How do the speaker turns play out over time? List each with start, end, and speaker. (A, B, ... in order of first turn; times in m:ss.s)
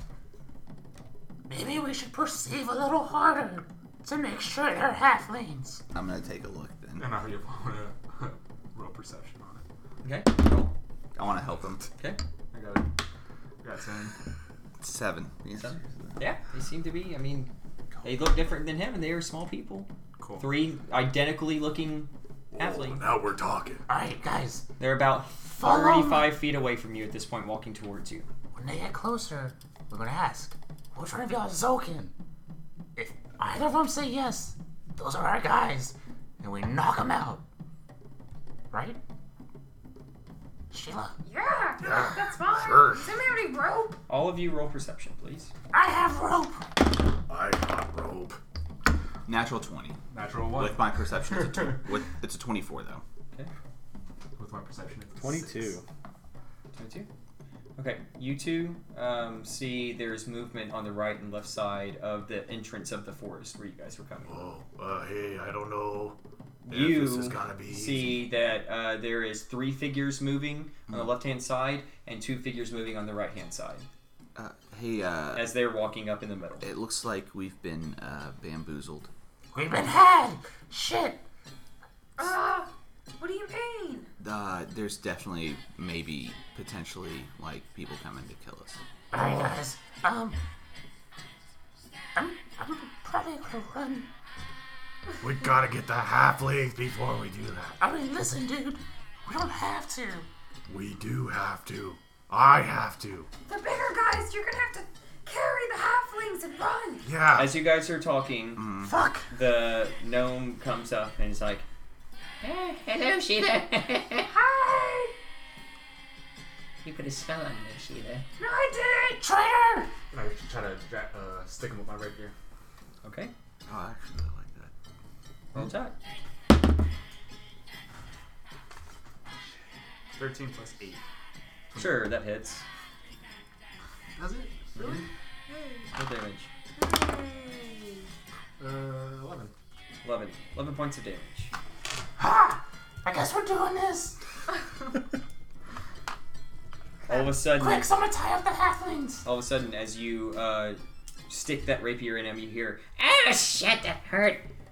0:01.5-0:05.8 A
0:05.9-0:07.1 B
0:07.0-0:09.6 C
0:10.0-0:10.8 D
0:11.2-0:11.9 B
0:12.5-0:12.9 C
0:13.6-0:14.2 C
0:14.8-0:15.9 B
0:15.6-0:17.5 D
0:18.0-0:23.1 D
0:20.2-0:20.5 C
0:22.5-0:23.8 E
0:23.9-0:24.7 A
0:24.8-0:28.3 D
0:25.6-0:26.4 A
0:28.5-0:32.1 A
0:33.0-0:37.4 A
0:38.7-0:39.0 A
0:40.7-0:41.2 A
0:41.2-0:44.0 F
0:41.8-0:43.0 E
0:44.1-0:45.5 D
0:45.7-0:46.6 A
0:47.3-0:48.4 E
0:49.3-0:50.0 B
0:50.1-0:51.8 C
0:50.5-0:53.0 B
0:54.4-0:55.8 C
0:55.2-0:55.8 E
0:56.7-0:57.1 D
0:57.8-1:04.4 D
1:04.2-1:06.2 E
1:06.6-1:13.9 D
1:06.7-1:08.3 E
1:14.4-1:15.5 B
1:15.4-1:16.7 D
1:16.6-1:19.1 B
1:19.5-1:21.2 A
1:22.2-1:24.1 F
1:24.2-1:28.8 B
1:29.1-1:30.4 A
1:32.2-1:34.1 A
1:35.2-1:37.8 E
1:37.8-1:40.3 A
1:40.7-1:43.3 E
1:43.5-1:47.1 F
1:47.0-1:47.5 E
1:47.4-1:48.7 D
1:48.6-1:48.9 B
1:48.8-1:49.3 A
1:49.3-1:51.7 D
1:52.4-1:54.3 G
1:54.3-1:55.1 F
1:56.8-1:58.2 G
1:58.4-1:59.1 F
1:59.0-1:59.9 A
2:00.1-2:02.3 C
2:03.0-2:03.3 D
2:03.7-2:04.7 B
2:05.5-2:06.0 D
2:10.2-2:11.0 C
2:11.7-2:12.1 C
2:11.8-2:12.6 D
2:14.2-2:15.8 C
2:14.8-2:15.0 D
2:15.9-2:16.5 D
2:16.8-2:17.4 C
2:18.6-2:19.5 C
2:20.0-2:21.5 D
2:22.2-2:24.2 A
2:27.1-2:27.9 D
2:27.6-2:29.2 A
2:29.2-2:32.8 D
2:33.0-2:34.4 G